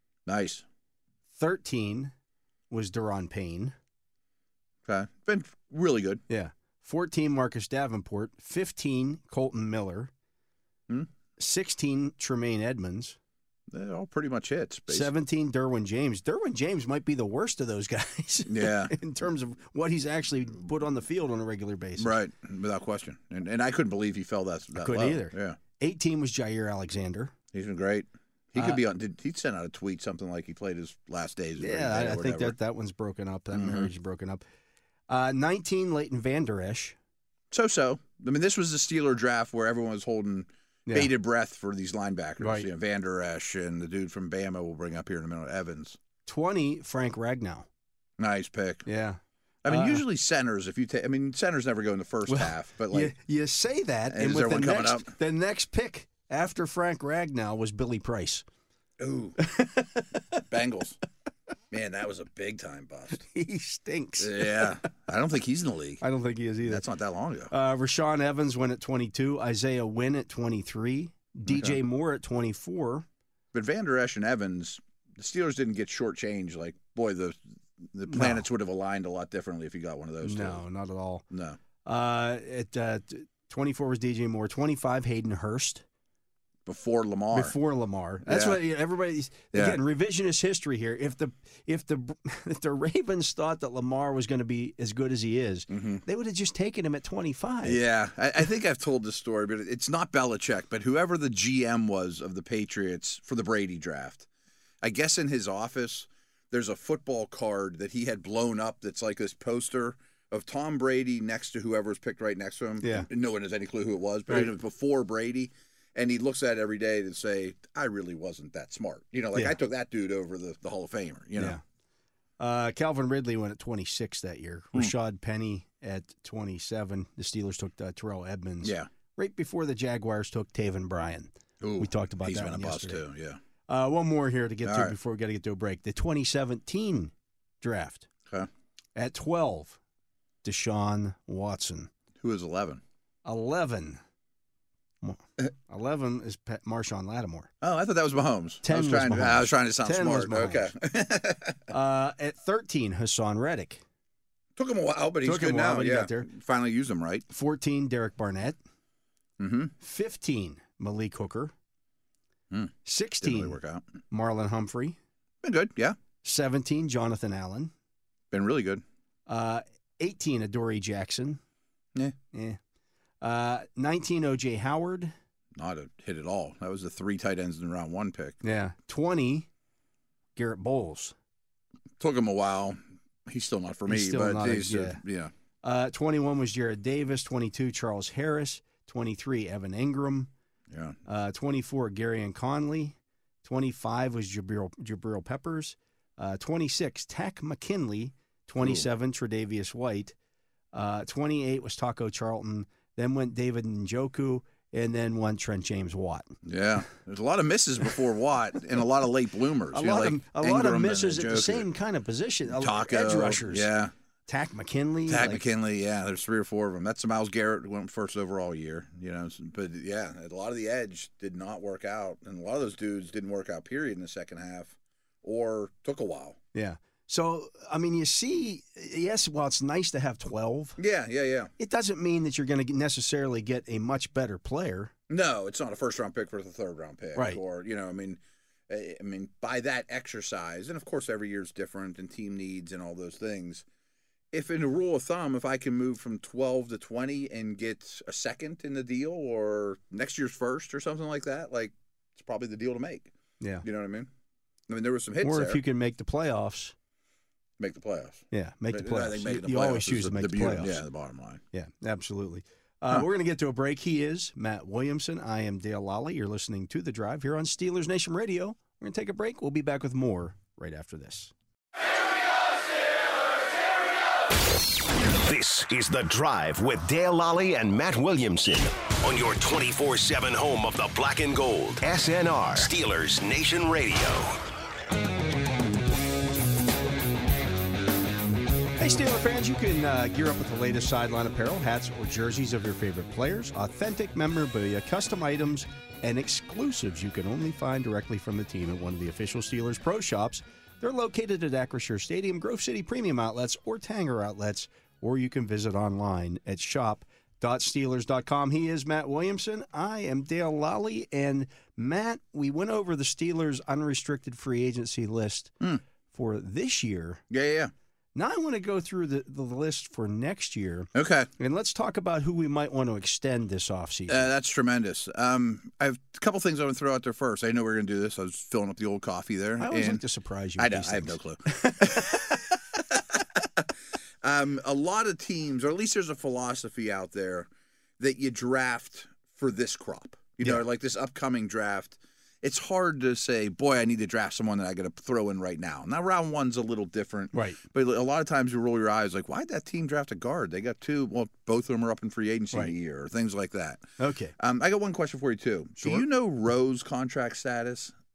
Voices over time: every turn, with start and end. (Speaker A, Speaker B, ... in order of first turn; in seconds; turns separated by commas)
Speaker A: 0.2-0.6, Speaker B: 1.3-2.1, Speaker B: 2.7-3.8, Speaker A: 4.9-6.2, Speaker B: 6.3-10.1, Speaker B: 11.4-13.2, Speaker A: 13.7-15.1, Speaker B: 14.9-22.1, Speaker A: 18.5-18.9, Speaker A: 22.0-25.6, Speaker B: 24.8-27.3, Speaker A: 27.5-32.6, Speaker B: 31.6-34.4, Speaker A: 33.5-33.9, Speaker B: 35.1-37.0, Speaker A: 37.5-46.0, Speaker B: 42.4-42.7, Speaker B: 46.2-47.7, Speaker A: 48.2-48.9, Speaker B: 48.9-50.0, Speaker A: 49.6-53.1, Speaker B: 52.3-58.5, Speaker A: 54.1-55.1, Speaker A: 59.0-59.4, Speaker B: 59.4-60.4, Speaker A: 60.5-61.0, Speaker A: 61.7-63.2, Speaker B: 63.1-64.9, Speaker A: 64.2-66.0, Speaker B: 66.0-66.8, Speaker A: 66.6-67.5, Speaker B: 67.5-73.1, Speaker A: 71.5-71.8, Speaker A: 73.5-80.6, Speaker B: 78.1-78.4, Speaker B: 80.2-81.2, Speaker A: 81.3-81.6, Speaker B: 81.8-85.8, Speaker A: 86.7-87.6, Speaker B: 87.3-97.8, Speaker A: 88.2-88.6, Speaker A: 89.5-89.8, Speaker A: 95.7-96.0, Speaker A: 97.6-104.3, Speaker A: 104.8-121.6, Speaker B: 112.8-113.1, Speaker B: 121.4-121.6, Speaker B: 122.4-133.0, Speaker A: 128.6-128.9, Speaker A: 131.6-133.4, Speaker B: 133.7-138.1, Speaker A: 134.6-134.9, Speaker B: 139.0-139.8, Speaker B: 140.4-141.9, Speaker A: 142.2-142.8, Speaker B: 143.2-144.0, Speaker B: 145.0-147.5, Speaker A: 147.6-151.7, Speaker B: 148.6-150.7, Speaker B: 151.7-153.8, Speaker A: 154.6-157.2, Speaker B: 155.2-156.3, Speaker B: 157.3-158.6, Speaker A: 159.4-159.7, Speaker B: 159.8-161.5, Speaker A: 162.5-163.8, Speaker B: 162.8-163.6, Speaker B: 164.1-165.0, Speaker A: 165.4-166.0, Speaker B: 166.2-167.7, Speaker A: 168.3-168.8, Speaker B: 169.3-171.4, Speaker B: 172.3-172.6, Speaker B: 173.2-175.1, Speaker A: 175.6-178.4, Speaker B: 178.4-179.5, Speaker B: 180.4-181.1, Speaker A: 182.0-185.3, Speaker B: 183.9-185.0, Speaker B: 185.6-190.3, Speaker A: 190.7-191.0, Speaker B: 191.0-200.1, Speaker B: 200.7-206.3, Speaker A: 206.4-211.7, Speaker B: 209.7-213.7, Speaker A: 212.5-213.9, Speaker B: 214.3-215.5, Speaker A: 215.1-226.4, Speaker B: 226.5-230.8, Speaker A: 230.8-231.5, Speaker B: 231.6-234.9, Speaker A: 235.1-243.6, Speaker B: 237.1-237.4, Speaker A: 244.3-253.1, Speaker A: 253.6-254.1, Speaker A: 254.7-255.6, Speaker B: 255.2-256.8, Speaker A: 257.6-261.4, Speaker B: 258.3-260.8, Speaker B: 261.5-271.3, Speaker C: 275.1-284.4, Speaker B: 288.8-315.5, Speaker B: 316.1-317.2, Speaker A: 317.3-317.7, Speaker B: 318.1-324.3, Speaker A: 320.9-321.3, Speaker A: 324.1-330.0, Speaker B: 329.6-332.4, Speaker A: 330.6-333.7, Speaker A: 334.2-337.5, Speaker A: 338.0-353.8, Speaker B: 347.3-347.6, Speaker B: 354.0-354.3, Speaker A: 354.4-357.9